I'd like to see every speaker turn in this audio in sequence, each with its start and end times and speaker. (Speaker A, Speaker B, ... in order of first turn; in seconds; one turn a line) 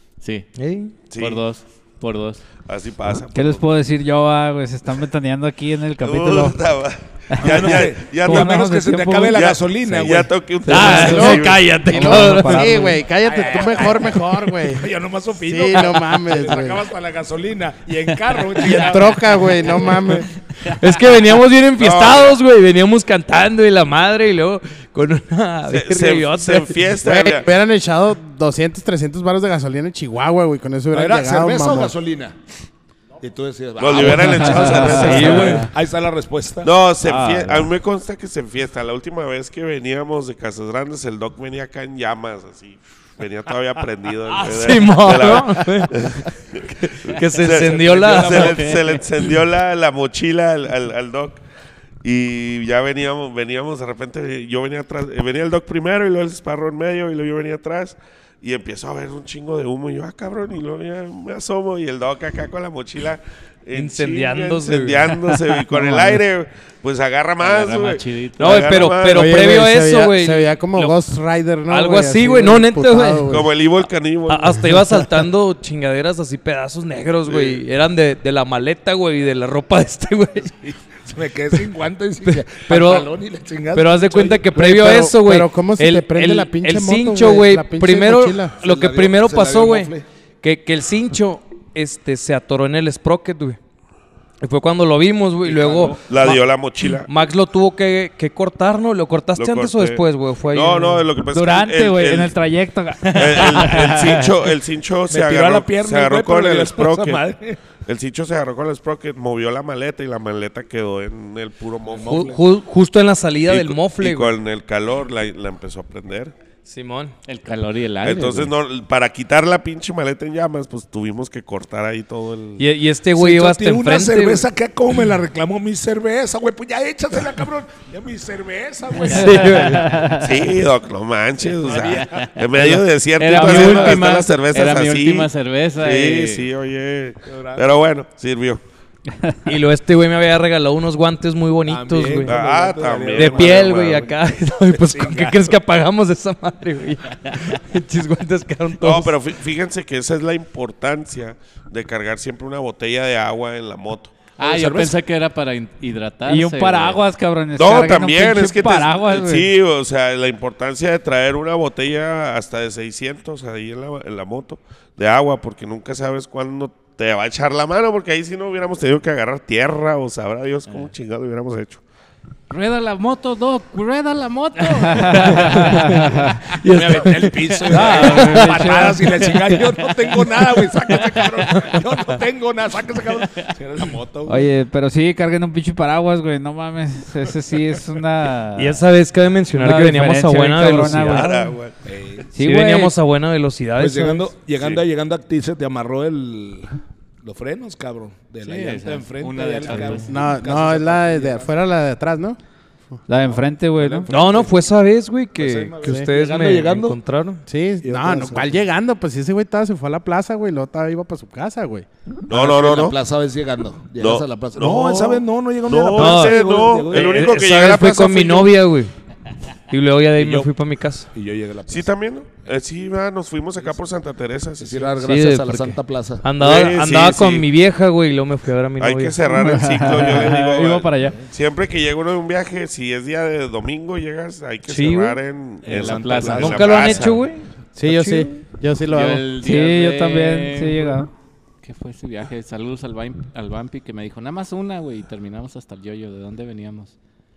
Speaker A: 0.2-0.5
Speaker B: 0.6-0.9
Speaker C: 1.1-1.4
Speaker A: 1.1-2.4
Speaker C: 2.6-3.7
Speaker D: 3.3-6.6
Speaker C: 6.0-8.6
Speaker D: 7.3-9.3
Speaker E: 7.4-10.3
Speaker C: 9.3-11.7
Speaker B: 10.7-12.8
Speaker D: 10.7-13.0
Speaker F: 10.8-14.9
Speaker E: 13.2-19.5
Speaker A: 13.4-13.8
Speaker F: 15.4-16.8
Speaker F: 18.6-20.3
Speaker B: 20.6-26.8
Speaker C: 21.8-22.4
Speaker C: 25.7-27.5
Speaker F: 27.0-31.9
Speaker E: 30.9-32.3
Speaker E: 33.2-36.7
Speaker C: 33.8-35.7
Speaker B: 34.0-35.7
Speaker D: 34.4-35.3
Speaker C: 36.6-51.4
Speaker D: 37.2-37.5
Speaker B: 44.3-46.2
Speaker B: 46.8-48.7
Speaker E: 47.6-49.0
Speaker C: 52.0-69.5
Speaker B: 63.7-66.2
Speaker A: 67.4-68.9
Speaker B: 68.4-71.0
Speaker F: 69.1-73.5
Speaker B: 71.7-73.3
Speaker C: 73.2-74.8
Speaker B: 74.3-80.6
Speaker C: 77.3-77.6
Speaker E: 80.6-84.5
Speaker B: 82.2-83.1
Speaker B: 83.7-93.6
Speaker F: 84.5-88.5
Speaker E: 88.5-90.0
Speaker B: 94.4-101.0
Speaker E: 95.4-96.0
Speaker C: 96.0-97.1
Speaker C: 99.3-102.3
Speaker D: 101.3-104.3
Speaker C: 103.1-107.2
Speaker E: 105.1-107.6
Speaker C: 107.8-112.3
Speaker E: 111.9-112.4
Speaker B: 112.1-114.3
Speaker C: 113.4-116.3
Speaker B: 116.6-117.1
Speaker A: 117.2-118.5
Speaker C: 118.0-122.7
Speaker B: 122.6-124.5
Speaker E: 123.1-130.0
Speaker B: 129.0-130.1
Speaker D: 129.1-130.3
Speaker C: 130.1-138.6
Speaker E: 131.6-132.3
Speaker A: 132.6-136.5
Speaker D: 133.3-134.0
Speaker E: 137.2-137.7
Speaker B: 139.4-142.3
Speaker E: 141.7-144.1
Speaker C: 142.2-144.1
Speaker B: 143.1-149.1
Speaker E: 144.6-145.6
Speaker C: 148.8-154.1
Speaker A: 154.4-157.0
Speaker E: 154.4-154.9
Speaker D: 156.3-159.5
Speaker C: 157.6-171.8
Speaker A: 172.5-177.2
Speaker D: 174.8-176.4
Speaker B: 175.1-178.7
Speaker E: 176.6-184.5
Speaker D: 177.7-179.1
Speaker B: 179.3-179.6
Speaker B: 181.5-181.8
Speaker A: 183.2-183.5
Speaker D: 184.3-188.8
Speaker B: 188.6-191.5
Speaker D: 189.5-191.3
Speaker C: 190.9-191.8
Speaker E: 191.8-192.3
Speaker D: 192.3-192.9
Speaker B: 192.4-194.3
Speaker E: 193.8-201.5
Speaker A: 198.4-200.1
Speaker F: 200.1-202.4
Speaker D: 203.1-204.1
Speaker E: 203.7-204.7
Speaker B: 204.1-207.4
Speaker E: 205.3-207.0
Speaker F: 207.5-211.8
Speaker E: 207.8-208.5
Speaker C: 212.3-213.0
Speaker E: 212.3-217.4
Speaker C: 214.0-218.6
Speaker B: 215.9-216.4
Speaker B: 216.9-218.9
Speaker B: 219.7-221.1
Speaker E: 220.1-220.5
Speaker E: 221.1-221.9
Speaker C: 221.7-225.0
Speaker E: 224.6-226.3
Speaker B: 225.0-230.1
Speaker C: 226.3-227.5
Speaker C: 228.8-237.2
Speaker D: 229.3-231.2
Speaker B: 234.7-235.2
Speaker E: 235.6-236.9
Speaker A: 235.7-237.0
Speaker B: 236.3-238.2
Speaker F: 237.8-239.2
Speaker A: 238.9-241.0
Speaker D: 239.4-241.1
Speaker A: 241.6-246.9